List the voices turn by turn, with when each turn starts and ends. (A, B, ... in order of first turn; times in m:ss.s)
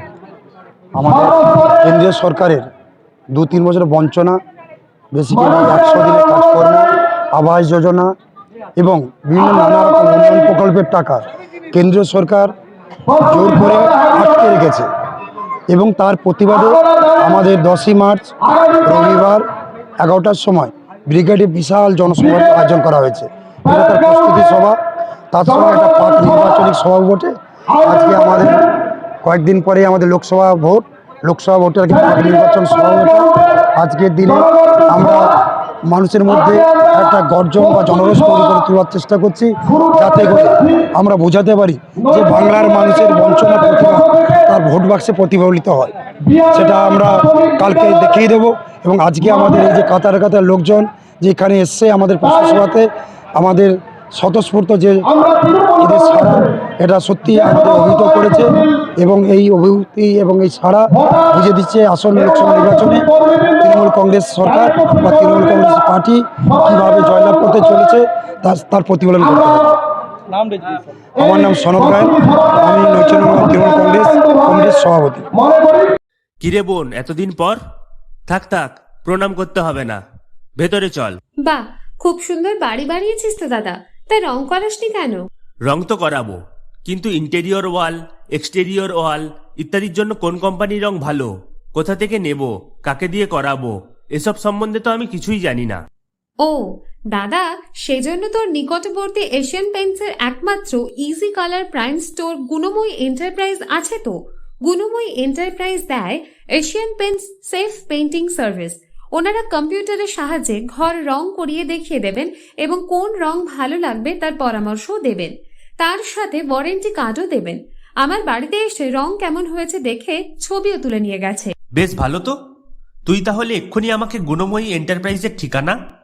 0:00.9-0:02.6 A
0:03.3-0:04.4 A
0:05.1-0:08.1 A
0:08.8-0:12.5 A
0:13.2-0:14.9 A
0:15.7-0:19.4 A
0:20.0-0:24.8 A
0:25.3-0:28.6 A
0:29.2-0:45.9 A
0:46.5-0:55.2 A
0:55.8-1:09.8 A
1:11.2-1:15.3 A
1:16.4-1:17.6 B
1:18.3-1:20.0 B
1:20.6-1:21.2 B
1:21.4-1:25.2 C
1:25.7-1:35.8 B
1:36.4-2:01.5 C
2:01.8-2:02.3 B
2:03.0-2:05.8 B